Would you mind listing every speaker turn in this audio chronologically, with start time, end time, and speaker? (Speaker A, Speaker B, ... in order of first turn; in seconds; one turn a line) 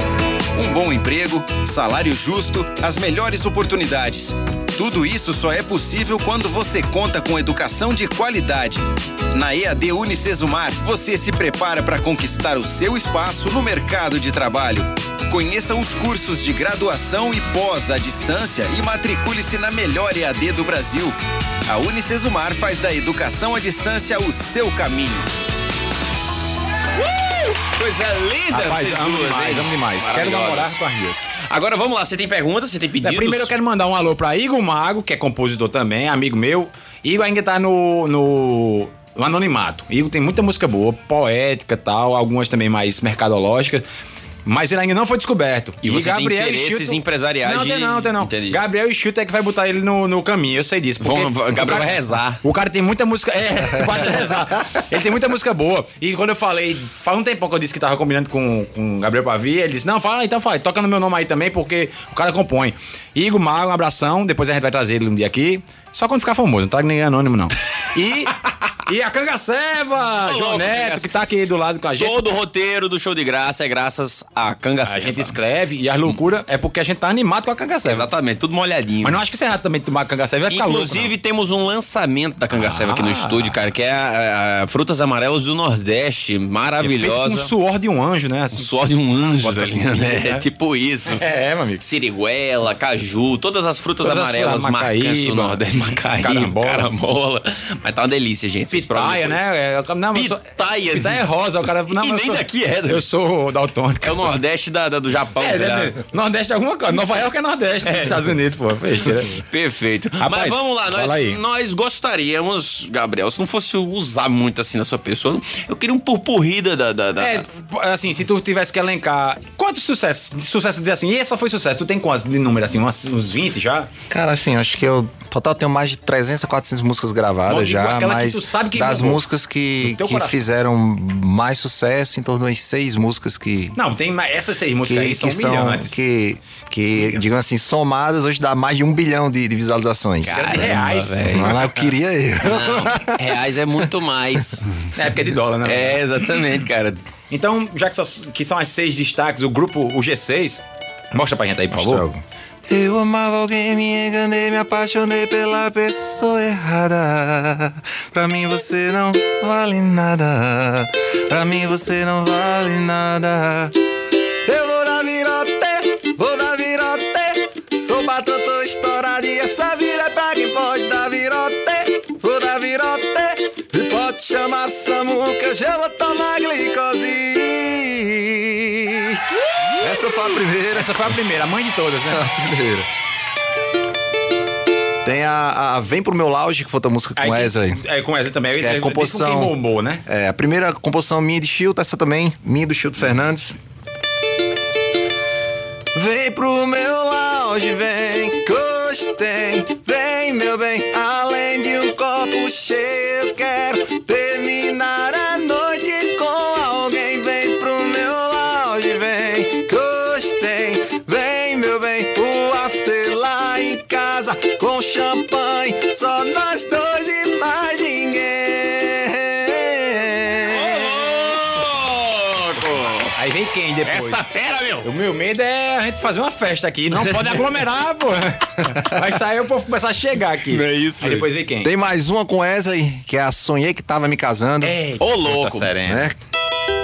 Speaker A: 0.6-25.3
Speaker B: 26.9-30.8
Speaker C: 28.5-31.3
Speaker B: 31.3-33.5
Speaker C: 33.0-43.8
Speaker C: 44.5-72.3
Speaker B: 45.8-48.6
Speaker B: 51.0-52.4
Speaker B: 70.2-71.1
Speaker B: 72.0-75.3
Speaker C: 74.8-78.1
Speaker B: 77.8-79.2
Speaker C: 79.0-81.1
Speaker B: 80.5-87.5
Speaker C: 82.5-83.6
Speaker C: 86.8-88.7
Speaker B: 88.5-91.2
Speaker C: 89.3-90.5
Speaker C: 91.1-91.8
Speaker B: 91.8-99.5
Speaker C: 94.0-96.9
Speaker C: 98.7-104.3
Speaker B: 100.1-101.2
Speaker B: 101.9-103.0
Speaker B: 104.0-106.0
Speaker C: 105.3-109.4
Speaker B: 109.5-117.4
Speaker C: 110.2-111.4
Speaker C: 117.2-123.9
Speaker D: 124.1-133.8
Speaker C: 127.5-129.2
Speaker C: 129.8-130.4
Speaker C: 133.8-136.0
Speaker D: 134.8-140.7
Speaker B: 140.2-141.5
Speaker C: 140.3-141.8
Speaker D: 141.3-143.4
Speaker B: 142.4-144.9
Speaker C: 144.9-146.3
Speaker B: 145.6-147.1
Speaker C: 147.3-150.6
Speaker C: 151.1-152.1
Speaker D: 151.7-163.8
Speaker D: 164.4-179.2
Speaker D: 179.7-181.2
Speaker C: 180.7-182.3
Speaker D: 182.1-182.9
Speaker D: 185.0-187.8
Speaker C: 187.2-190.0
Speaker D: 188.6-189.5
Speaker D: 190.1-193.6
Speaker D: 195.9-221.3
Speaker B: 220.5-223.1
Speaker C: 223.1-224.2
Speaker B: 223.8-224.9
Speaker C: 224.8-231.7
Speaker B: 230.5-231.3
Speaker D: 231.6-234.8
Speaker C: 234.6-236.1
Speaker B: 235.0-235.7
Speaker D: 235.8-236.2